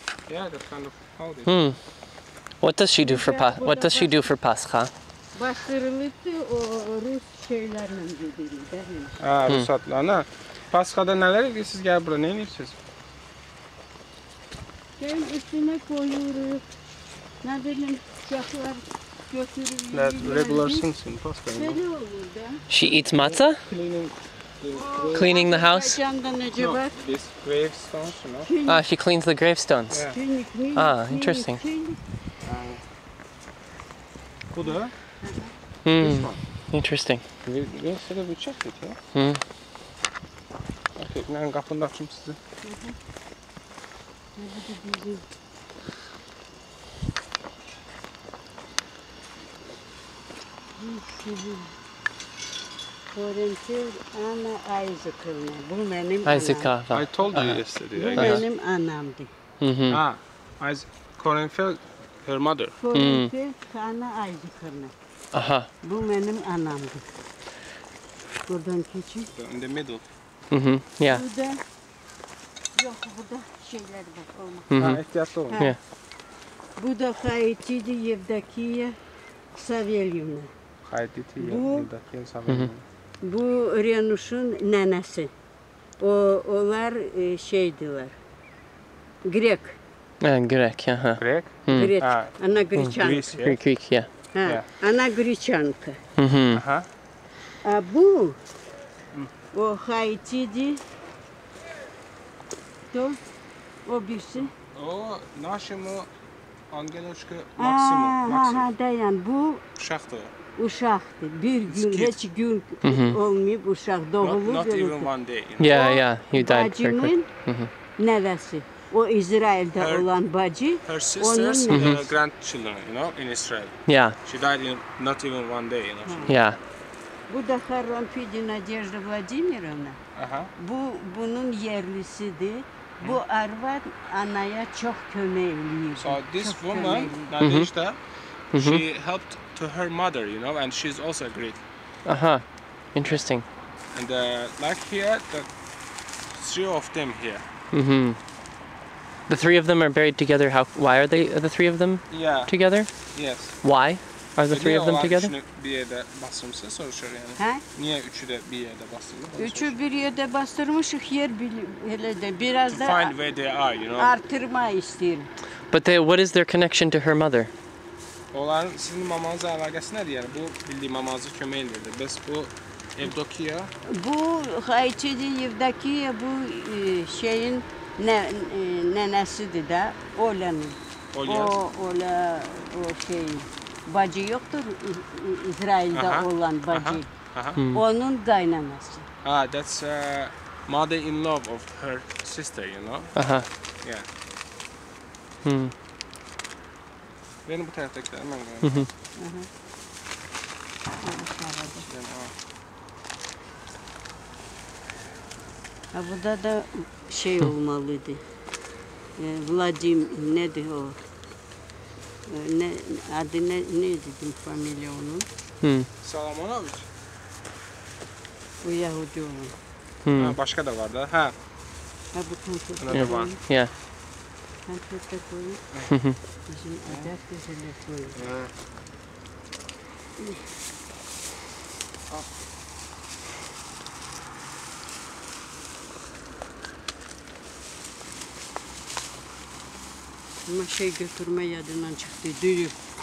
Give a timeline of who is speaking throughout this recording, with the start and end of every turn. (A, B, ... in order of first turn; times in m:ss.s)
0:00.3-0:01.6 A
0:01.5-0:01.8 B
0:02.6-0:04.9 B
0:03.0-0:04.3 C
0:05.4-0:09.2 C
0:09.2-0:12.8 A
0:15.0-0:16.6 C
0:17.4-0:20.9 C
0:19.9-0:21.8 A
0:21.5-0:22.6 C
0:22.7-0:23.6 B
0:23.0-0:25.4 A
0:24.7-0:27.0 C
0:25.1-0:26.0 B
0:26.6-0:28.5 A
0:28.4-0:28.9 C
0:28.7-0:30.1 B
0:29.9-0:30.2 A
0:30.1-0:32.0 C
0:30.7-0:31.6 B
0:32.4-0:32.8 A
0:34.5-0:34.9 A
0:34.6-0:35.5 C
0:35.8-0:37.2 B
0:36.0-0:36.4 A
0:37.4-0:39.0 A
0:39.1-0:39.4 B
0:41.0-0:42.4 A
0:42.6-0:43.0 C
0:44.4-0:45.2 C
0:50.8-0:51.7 C
0:53.1-0:56.7 C
0:56.2-0:57.6 B
0:56.9-0:58.4 A
0:58.0-0:59.3 C
0:58.1-0:58.4 B
0:59.6-1:00.0 B
0:59.9-1:02.8 A
1:02.8-1:04.9 C
1:02.9-1:03.3 B
1:05.3-1:05.7 B
1:05.8-1:07.1 C
1:08.5-1:09.3 C
1:09.4-1:10.0 A
1:10.5-1:11.2 B
1:11.0-1:11.6 C
1:12.8-1:15.0 C
1:14.7-1:15.0 B
1:14.8-1:15.6 A
1:15.5-1:15.8 C
1:16.8-1:19.0 C
1:19.6-1:20.5 C
1:20.8-1:22.8 A
1:21.4-1:21.9 C
1:23.2-1:25.3 C
1:26.0-1:28.2 C
1:29.2-1:29.8 C
1:30.2-1:31.9 B
1:31.2-1:33.6 A
1:31.7-1:33.3 C
1:32.8-1:34.1 B
1:34.3-1:36.0 C
1:36.2-1:36.6 B
1:36.5-1:36.9 A
1:37.6-1:38.4 C
1:39.5-1:40.8 C
1:42.9-1:43.2 C
1:43.8-1:44.5 C
1:44.7-1:46.1 A
1:46.7-1:48.7 A
1:47.6-1:49.6 C
1:49.8-1:50.3 A
1:50.6-1:55.1 C
1:51.7-1:52.2 A
1:52.8-1:53.2 B
1:54.2-1:55.8 A
1:55.6-1:57.7 B
1:55.6-1:57.3 C
1:58.0-2:02.0 C
1:59.8-2:00.1 A
2:00.8-2:06.4 A
2:01.7-2:02.0 B
2:03.9-2:04.2 B
2:06.0-2:06.4 C
2:06.3-2:06.6 B
2:07.3-2:10.0 C
2:10.2-2:10.5 A
2:10.6-2:17.4 C
2:16.0-2:18.0 A
2:17.4-2:17.7 B
2:18.5-2:21.6 A
2:18.5-2:18.8 B
2:22.1-2:23.4 B
2:23.9-2:25.5 A
2:26.3-2:27.4 A
2:27.7-2:28.2 B
2:29.3-2:32.9 B
2:32.1-2:32.6 A
2:33.1-2:33.6 A
2:33.6-2:35.3 B
2:34.5-2:39.8 A
2:37.4-2:37.6 C
2:39.4-2:43.2 C
2:42.7-2:44.2 A
2:44.0-2:45.3 C
2:45.7-2:47.5 B
2:48.3-2:53.7 A
2:53.8-3:07.1 C
3:01.1-3:01.6 A
3:05.9-3:07.6 A
3:07.6-3:07.8 B
3:07.7-3:09.1 C
3:09.2-3:13.2 A
3:13.2-3:13.5 B
3:15.4-3:15.7 B
3:17.5-3:18.9 A
3:18.6-3:18.9 B
3:19.2-3:19.5 C
3:21.0-3:21.9 C
3:21.8-3:22.3 A
3:25.9-3:28.2 C
3:29.2-3:31.0 C
3:32.3-3:35.3 C
3:35.6-3:35.9 B
3:36.0-3:36.9 A
3:38.6-3:39.6 C
3:40.0-3:40.4 B
3:40.2-3:41.4 A
3:42.1-3:43.4 C
3:42.8-3:43.4 A
3:42.9-3:43.7 B
3:44.7-3:45.6 C
3:45.9-3:46.2 B
3:46.5-3:48.2 C
3:46.9-3:47.1 A
3:48.2-3:48.5 A
4:00.5-4:02.8 C